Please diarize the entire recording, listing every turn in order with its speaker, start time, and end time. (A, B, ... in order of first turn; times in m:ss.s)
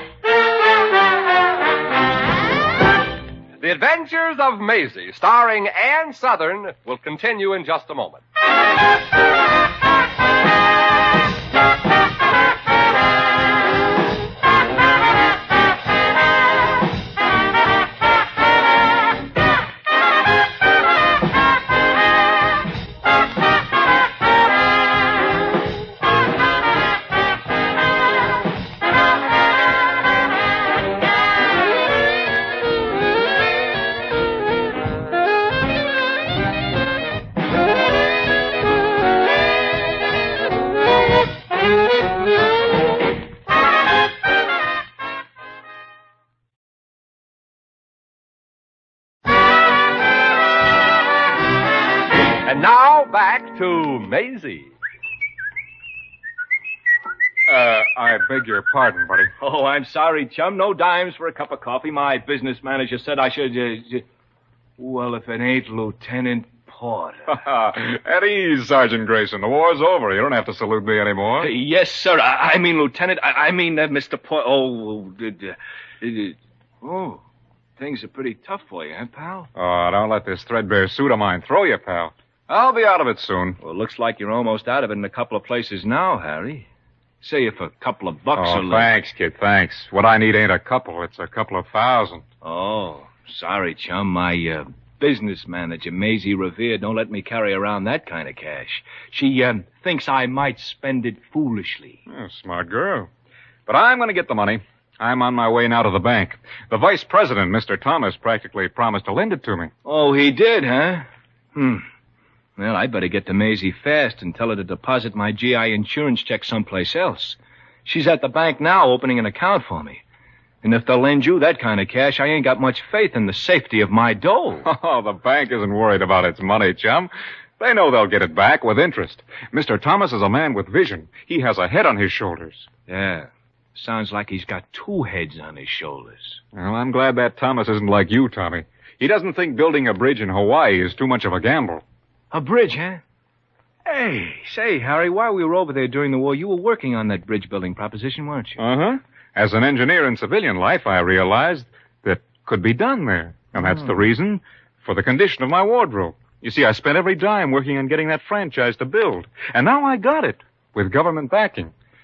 0:03.6-0:08.2 A
0:52.4-0:54.7 A
0:57.5-0:59.3 B
0:59.4-1:04.0 C
1:04.8-1:07.3 C
1:07.3-1:11.5 B
1:11.4-1:17.2 C
1:17.8-1:19.5 C
1:19.6-1:23.6 B
1:23.6-1:26.7 C
1:27.2-1:28.9 C
1:28.4-1:32.2 B
1:32.4-1:42.0 C
1:42.1-1:43.1 B
1:43.6-1:49.7 B
1:49.8-1:51.8 C
1:52.6-2:00.0 C
2:00.6-2:04.7 C
2:04.6-2:12.7 B
2:12.9-2:16.4 C
2:16.5-2:21.8 B
2:22.3-2:23.0 C
2:23.8-2:28.6 C
2:28.6-2:41.7 B
2:33.5-2:33.9 C